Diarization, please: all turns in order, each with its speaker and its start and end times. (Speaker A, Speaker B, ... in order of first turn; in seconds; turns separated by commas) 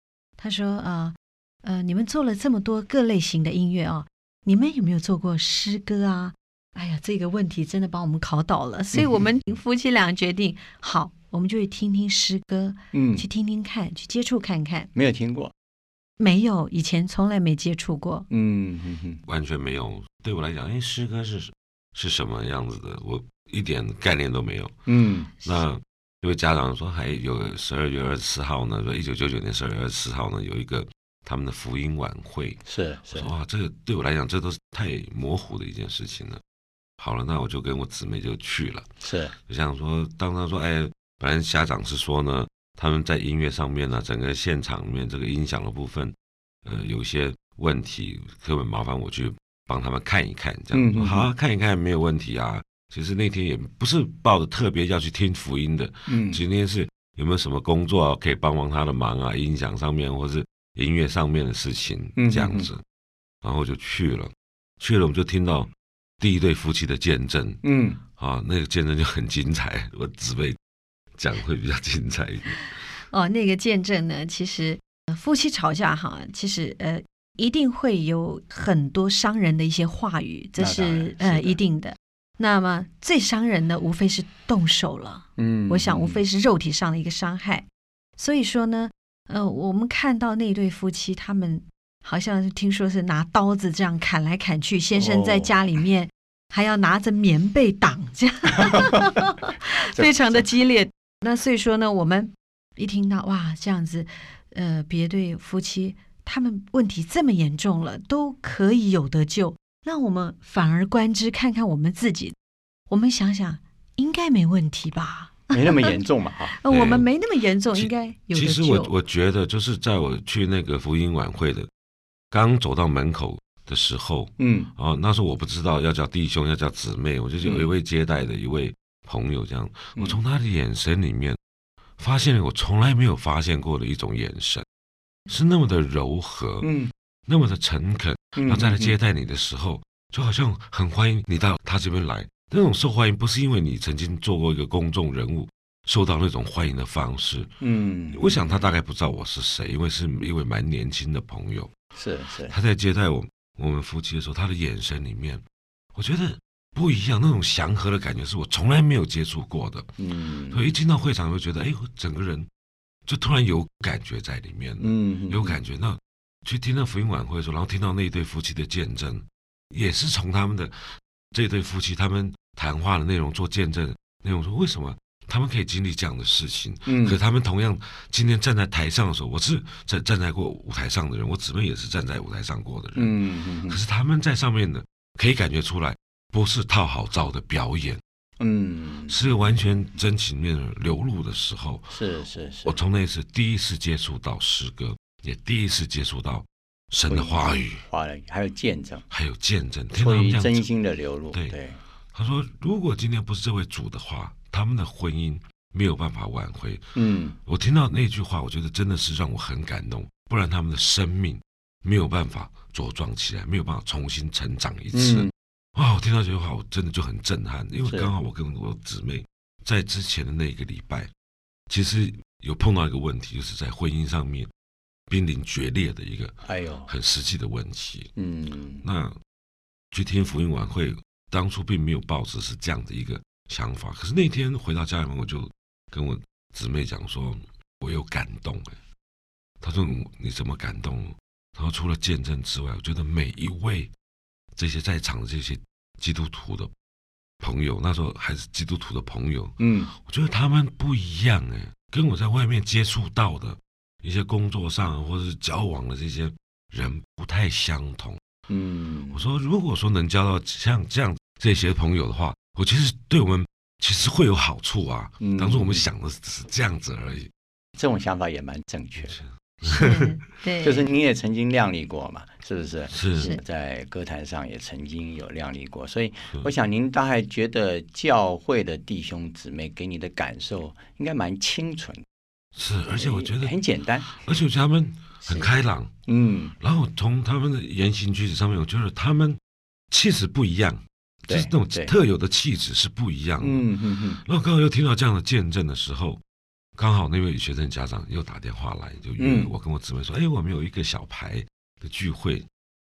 Speaker A: 0.4-14.9, Speaker B: 8.9-9.2, Speaker B: 12.9-13.2, Speaker B: 14.9-15.5, Speaker A: 16.2-18.2, Speaker B: 18.3-19.2, Speaker C: 19.2-24.8, Speaker B: 24.9-25.3, Speaker C: 25.4-32.6, Speaker B: 32.6-33.3, Speaker C: 33.1-36.4, Speaker C: 37.0-38.9, Speaker B: 39.0-39.3, Speaker C: 39.5-46.1, Speaker C: 46.6-62.8, Speaker B: 50.7-51.3, Speaker B: 56.1-56.4, Speaker B: 62.2-62.7, Speaker C: 63.4-67.6, Speaker B: 67.6-68.0, Speaker C: 68.2-70.6, Speaker C: 71.2-72.7, Speaker A: 73.1-87.6, Speaker B: 80.6-81.5, Speaker B: 85.4-86.2, Speaker A: 88.2-112.3, Speaker B: 95.0-95.6, Speaker B: 98.6-99.1, Speaker B: 99.9-100.5, Speaker A: 112.9-116.0, Speaker B: 115.5-116.6, Speaker A: 116.5-118.9, Speaker C: 116.7-117.0, Speaker C: 117.8-121.7, Speaker C: 122.3-131.4, Speaker B: 124.4-124.7, Speaker B: 127.4-127.7, Speaker C: 132.0-134.6, Speaker C: 135.3-136.7, Speaker B: 136.6-136.9, Speaker C: 137.3-147.6, Speaker B: 138.4-138.9, Speaker B: 147.6-148.4, Speaker C: 148.1-151.7, Speaker B: 151.9-152.5, Speaker C: 152.5-155.4, Speaker C: 155.9-160.0, Speaker B: 160.0-160.6, Speaker C: 160.5-162.5, Speaker C: 163.1-188.0, Speaker B: 164.8-165.6, Speaker B: 176.9-177.2, Speaker B: 182.9-183.8, Speaker B: 188.4-189.2, Speaker C: 189.1-192.0, Speaker B: 191.9-192.8, Speaker C: 192.6-197.8, Speaker B: 197.1-199.0, Speaker C: 199.1-200.6, Speaker B: 199.9-201.8, Speaker C: 201.3-201.6, Speaker C: 202.1-206.8, Speaker B: 206.9-207.3, Speaker C: 207.4-221.1, Speaker B: 214.9-215.3, Speaker B: 217.8-218.1, Speaker C: 221.7-224.5, Speaker C: 225.1-228.1, Speaker B: 226.4-226.9, Speaker B: 228.2-228.8, Speaker C: 228.8-229.2, Speaker C: 229.9-238.8, Speaker C: 239.6-243.9, Speaker C: 244.6-246.7, Speaker C: 247.4-258.2, Speaker B: 249.6-249.9, Speaker B: 258.5-259.2, Speaker C: 259.1-267.3, Speaker B: 265.2-265.8, Speaker B: 267.8-269.1, Speaker C: 269.0-270.0, Speaker A: 269.6-270.9, Speaker B: 270.6-282.0, Speaker C: 272.9-273.3, Speaker C: 282.5-283.6, Speaker B: 283.0-284.1, Speaker C: 284.1-285.9, Speaker A: 285.2-285.5, Speaker B: 286.1-286.5, Speaker C: 286.6-289.4, Speaker C: 289.9-293.7, Speaker B: 291.3-291.9, Speaker B: 293.4-294.2, Speaker C: 294.2-296.2, Speaker C: 296.8-302.4, Speaker B: 299.2-299.5